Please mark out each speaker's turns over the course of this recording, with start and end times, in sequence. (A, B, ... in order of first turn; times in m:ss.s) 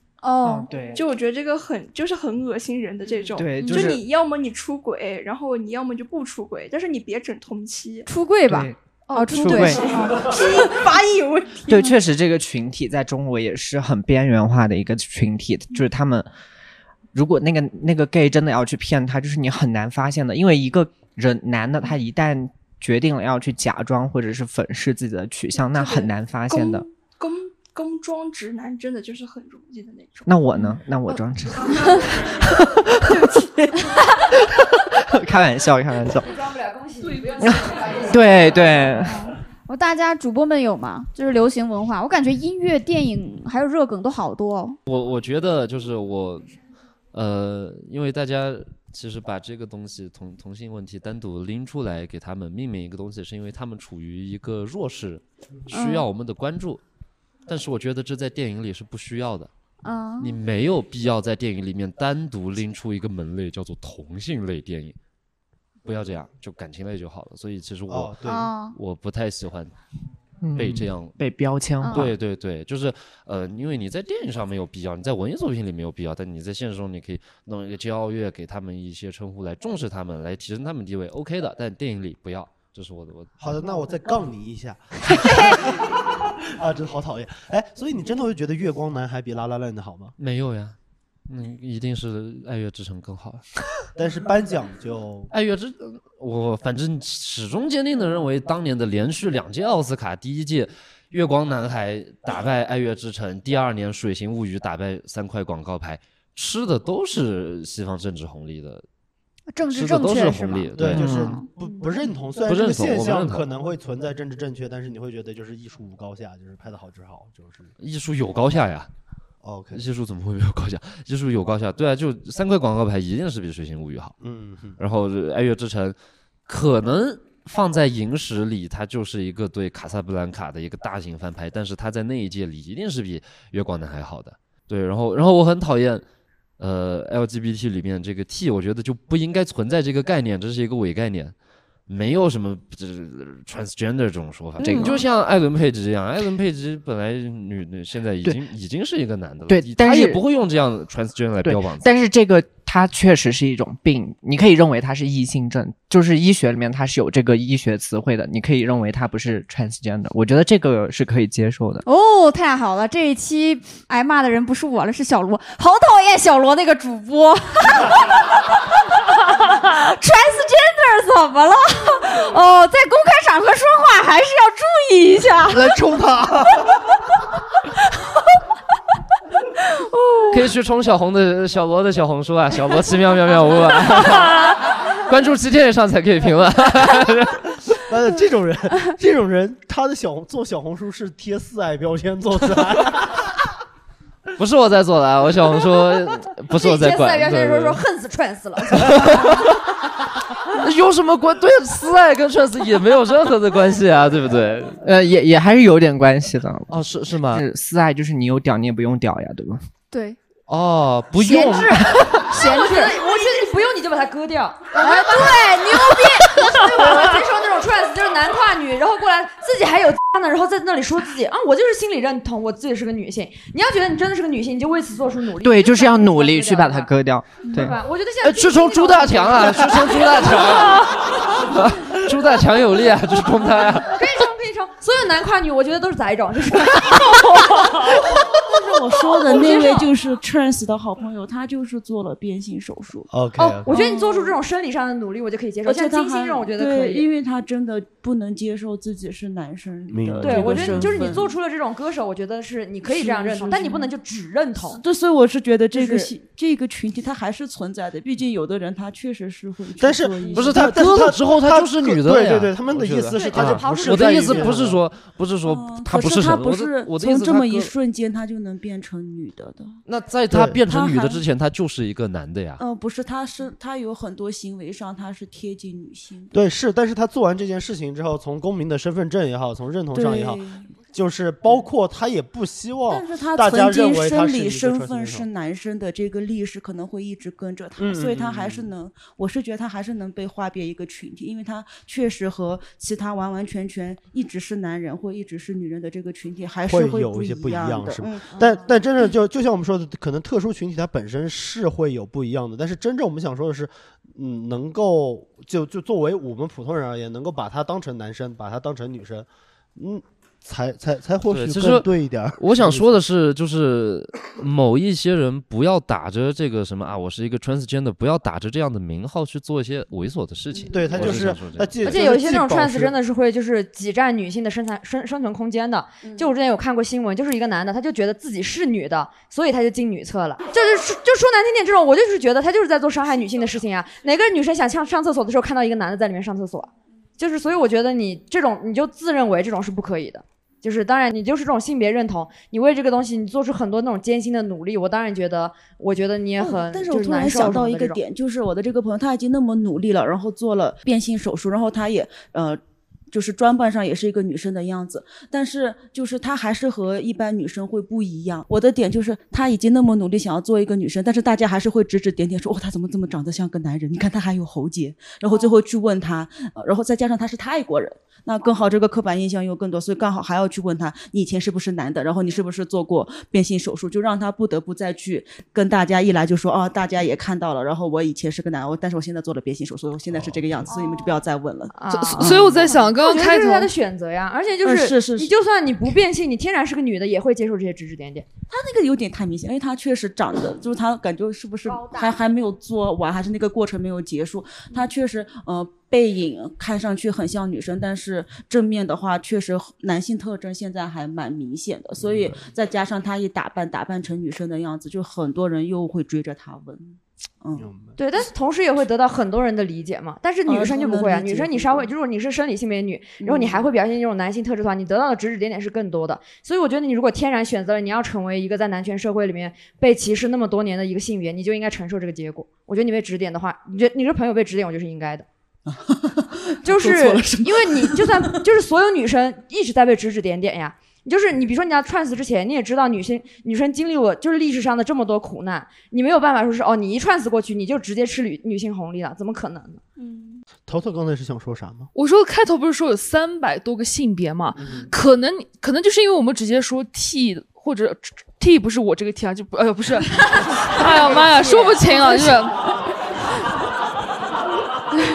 0:00.2-0:00.7 A
0:00.4-0:01.0 B
0:00.9-0:08.1 C
0:03.4-0:04.0 B
0:03.6-0:03.9 A
0:08.0-0:10.1 A
0:08.5-0:08.8 B
0:09.1-0:11.9 C
0:09.3-0:09.8 B
0:11.7-0:16.3 B
0:17.1-0:26.8 B
0:25.6-0:30.3 C
0:30.2-0:36.3 B
0:36.2-0:38.7 D
0:37.4-0:39.3 B
0:39.0-0:44.8 A
0:44.8-0:46.5 E
0:47.1-0:56.8 E
0:55.7-0:56.0 A
0:57.5-0:59.5 E
0:59.8-1:00.4 A
1:00.2-1:05.0 E
1:05.8-1:09.7 E
1:07.9-1:08.5 F
1:08.2-1:08.7 A
1:10.4-1:12.1 B
1:10.6-1:11.2 E
1:11.8-1:12.1 A
1:11.9-1:23.3 E
1:23.4-1:30.1 F
1:30.2-1:30.8 E
1:31.3-1:33.4 E
1:33.9-1:35.3 F
1:35.3-1:48.8 E
1:49.5-1:51.4 A
1:49.7-1:51.2 E
1:50.7-1:57.7 F
1:50.9-1:51.4 B
1:52.4-1:53.4 E
1:57.8-1:58.9 E
1:59.4-1:59.8 F
1:59.7-2:04.2 E
2:04.2-2:04.8 F
2:04.8-2:06.0 E
2:06.5-2:16.0 E
2:16.6-2:21.3 E
2:21.9-2:31.9 E
2:24.6-2:25.0 B
2:29.5-2:30.2 B
2:31.4-2:41.8 B
2:41.8-2:48.2 A
2:49.6-2:55.8 A
2:55.5-2:56.5 F
2:59.9-3:00.4 A
3:00.3-3:07.5 E
3:07.9-3:13.3 F
3:14.4-3:17.8 E
3:16.5-3:19.4 D
3:18.6-3:19.6 E
3:20.5-3:24.8 E
3:24.8-3:26.8 B
3:26.7-3:27.4 E
3:27.3-3:29.6 B
3:29.9-3:30.2 A
3:30.5-3:31.9 E
3:31.2-3:33.2 A
3:32.4-3:46.9 D
3:34.7-3:37.0 A
3:45.4-3:47.8 B
3:47.5-3:50.5 D
3:48.2-3:54.1 E
3:53.9-3:57.8 D
3:58.3-4:04.4 G
3:59.3-3:59.8 D
4:03.1-4:03.8 F
4:03.4-4:07.0 D
4:05.6-4:11.4 G
4:09.9-4:11.3 F
4:10.2-4:14.8 D
4:12.8-4:13.9 G
4:14.6-4:21.1 G
4:19.8-4:24.8 F
4:20.3-4:27.7 E
4:23.1-4:24.6 D
4:25.4-4:29.8 G
4:29.8-4:32.6 E
4:30.3-4:30.6 F
4:30.6-4:31.2 G
4:32.6-4:36.4 G
4:36.3-4:45.3 F
4:39.9-4:40.7 G
4:42.9-4:58.6 G
4:47.8-4:48.7 F
4:56.6-5:13.0 F
5:11.3-5:22.1 E
5:20.7-5:23.0 F
5:21.8-5:48.0 D
5:46.4-5:52.6 G
5:53.1-6:22.7 G
6:21.8-6:28.2 D
6:21.8-6:23.7 H
6:24.6-6:25.3 G
6:28.5-6:47.7 G
6:42.0-6:42.4 F
6:47.6-6:48.0 F
6:48.0-7:05.2 D
6:50.4-6:51.9 G
6:53.2-6:53.6 G
7:05.9-7:08.4 G
7:06.6-7:19.8 D
7:20.7-7:21.9 F
7:21.9-7:32.7 H
7:24.6-7:24.8 F
7:31.2-7:32.0 D